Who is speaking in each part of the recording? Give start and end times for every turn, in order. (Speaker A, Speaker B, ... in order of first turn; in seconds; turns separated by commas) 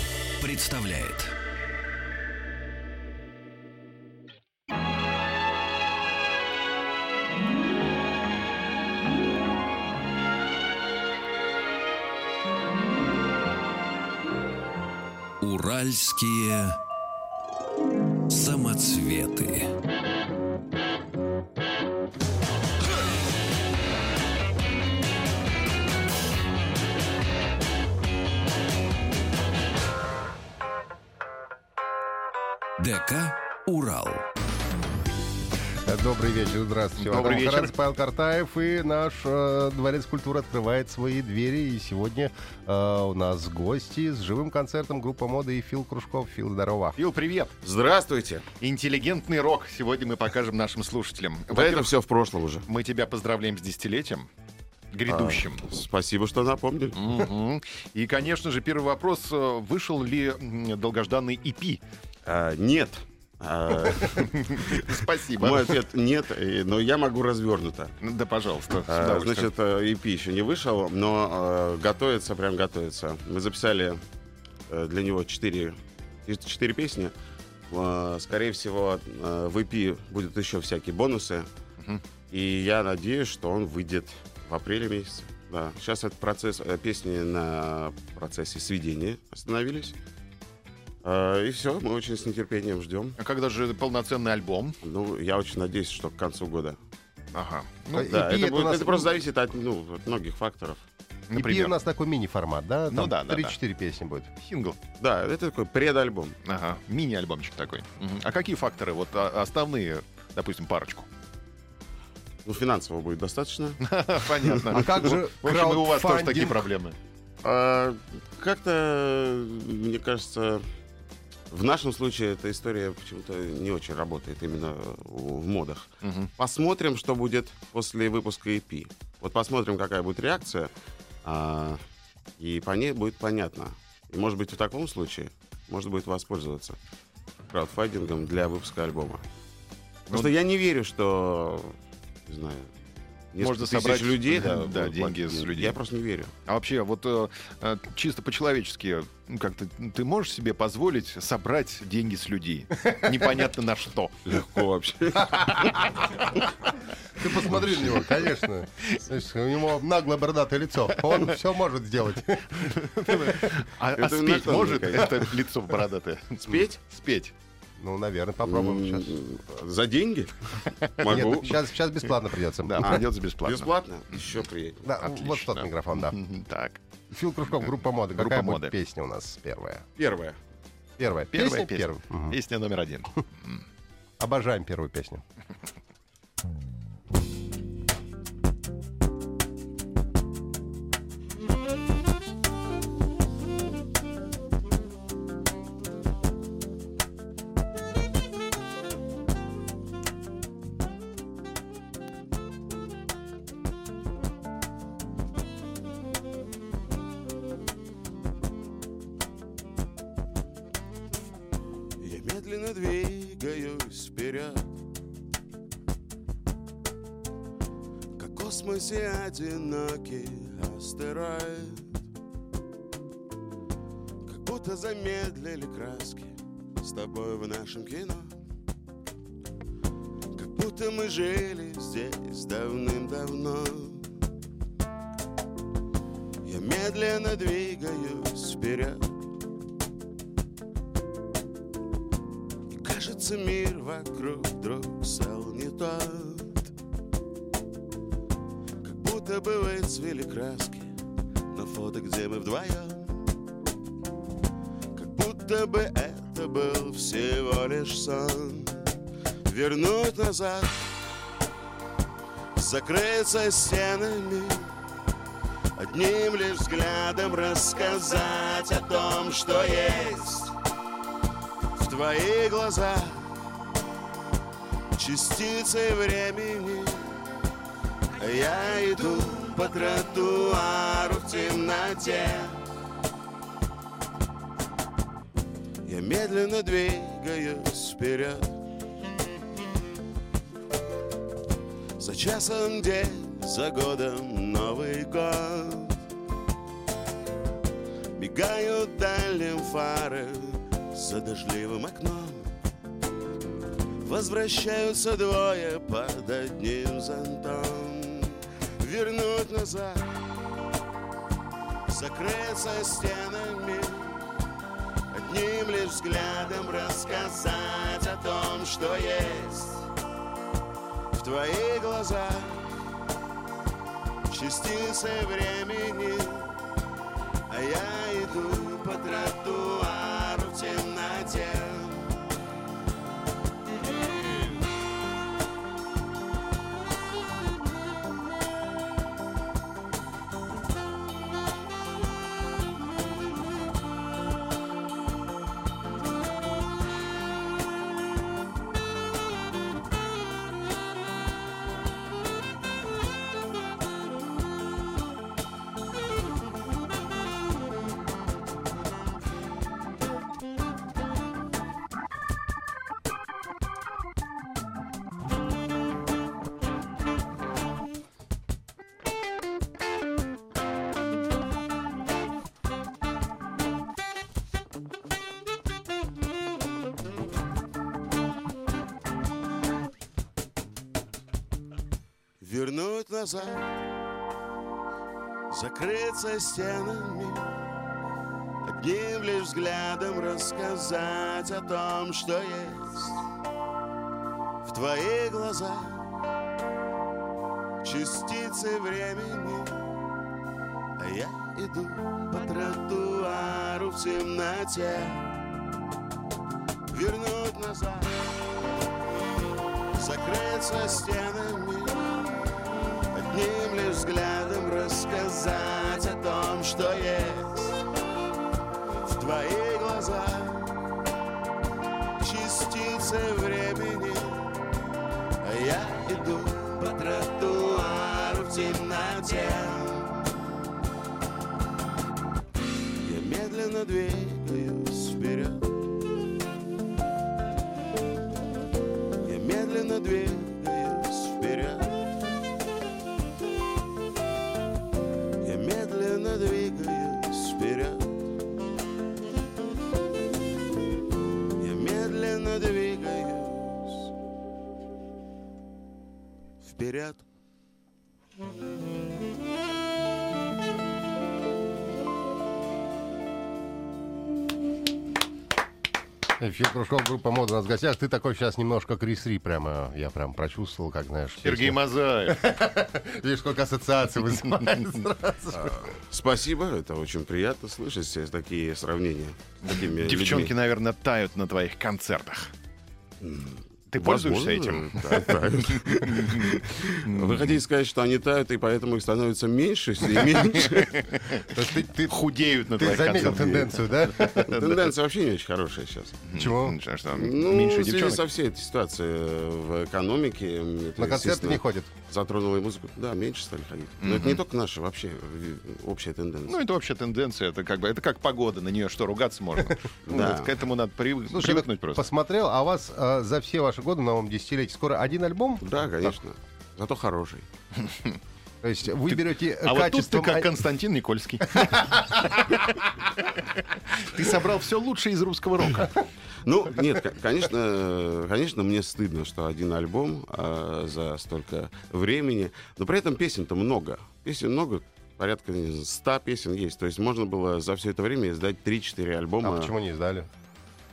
Speaker A: 0.4-1.3, Speaker A: 15.4-16.8, Speaker A: 18.3-19.7, Speaker A: 32.8-34.2, Speaker B: 35.8-47.0, Speaker C: 37.0-37.7, Speaker C: 47.0-47.5, Speaker D: 47.6-48.5, Speaker C: 48.6-51.9, Speaker D: 51.5-52.6, Speaker C: 52.7-54.3, Speaker C: 54.9-55.6, Speaker D: 55.0-57.1, Speaker C: 57.0-61.8, Speaker D: 62.2-67.9, Speaker C: 64.2-65.8, Speaker C: 68.0-69.5, Speaker D: 68.9-74.0, Speaker D: 74.7-77.1, Speaker D: 77.7-81.5, Speaker D: 82.3-90.0, Speaker D: 91.0-93.2, Speaker C: 93.2-94.8, Speaker D: 94.8-96.8, Speaker C: 97.3-98.2, Speaker B: 97.9-99.1, Speaker D: 98.0-100.8, Speaker C: 101.3-101.8, Speaker B: 101.3-104.3, Speaker C: 102.9-103.5, Speaker C: 104.4-104.8, Speaker D: 105.0-106.3, Speaker C: 106.4-111.1, Speaker D: 112.4-113.8, Speaker C: 113.8-116.9, Speaker D: 114.4-114.8, Speaker B: 114.7-116.7, Speaker D: 117.4-120.7, Speaker D: 121.5-130.7, Speaker C: 126.0-126.3, Speaker D: 131.2-131.8, Speaker D: 132.4-136.8, Speaker D: 137.5-139.2, Speaker D: 140.1-141.7, Speaker D: 142.3-142.7, Speaker D: 143.3-146.3, Speaker C: 143.4-145.8, Speaker C: 146.4-154.4, Speaker D: 154.2-155.7, Speaker B: 157.2-163.4, Speaker C: 162.9-167.3, Speaker D: 163.9-165.3, Speaker D: 166.4-166.8, Speaker B: 167.8-169.2, Speaker D: 168.4-171.5, Speaker C: 170.8-171.4, Speaker B: 171.0-173.0, Speaker C: 172.6-174.2, Speaker D: 172.8-174.9, Speaker B: 174.8-176.2, Speaker C: 175.0-176.8, Speaker B: 177.1-179.9, Speaker C: 178.1-178.7, Speaker D: 180.0-180.4, Speaker B: 181.0-182.4, Speaker C: 181.3-183.6, Speaker B: 184.2-185.2, Speaker D: 212.0-214.7, Speaker D: 218.2-222.0, Speaker D: 224.2-228.3, Speaker D: 230.3-234.1, Speaker D: 236.4-239.1, Speaker D: 242.7-246.7, Speaker D: 248.8-250.9, Speaker D: 251.5-253.2, Speaker D: 254.9-258.9, Speaker D: 259.4-260.9, Speaker D: 262.6-264.8, Speaker D: 265.8-270.5, Speaker D: 271.7-273.3, Speaker D: 274.9-277.2, Speaker D: 278.1-282.6, Speaker D: 285.8-288.5, Speaker D: 292.0-296.0, Speaker D: 298.2-302.5, Speaker D: 304.0-310.1, Speaker D: 311.9-314.2, Speaker D: 315.1-319.8, Speaker D: 321.1-322.7, Speaker D: 324.3-326.5, Speaker D: 327.5-332.1, Speaker D: 382.4-383.7, Speaker D: 385.5-387.6, Speaker D: 388.6-393.2, Speaker D: 394.6-396.1, Speaker D: 397.8-399.9, Speaker D: 401.0-405.3, Speaker D: 406.9-408.2, Speaker D: 409.9-412.1, Speaker D: 413.1-417.8, Speaker D: 419.0-420.8, Speaker D: 422.2-424.5, Speaker D: 425.4-430.3, Speaker D: 433.0-435.7, Speaker D: 439.2-442.0, Speaker D: 445.4-448.2, Speaker D: 451.6-454.1, Speaker D: 456.6-457.2, Speaker B: 466.4-475.9, Speaker C: 471.4-472.5, Speaker C: 474.5-474.9, Speaker D: 475.5-480.5, Speaker C: 479.6-482.5, Speaker D: 483.2-491.1, Speaker C: 483.9-487.6, Speaker C: 490.9-491.5, Speaker B: 491.5-492.2, Speaker C: 492.1-494.9, Speaker B: 492.7-494.4, Speaker D: 493.2-493.6, Speaker D: 494.4-496.2, Speaker C: 496.3-498.2, Speaker B: 496.3-496.8, Speaker D: 497.1-506.6, Speaker B: 501.0-501.9, Speaker C: 504.0-504.4, Speaker C: 506.5-512.0, Speaker D: 510.1-510.5, Speaker B: 511.3-516.1, Speaker D: 515.6-517.5, Speaker C: 517.8-518.2, Speaker B: 518.6-520.5, Speaker C: 519.1-526.0, Speaker B: 521.5-522.3, Speaker D: 526.4-539.7, Speaker B: 539.4-540.3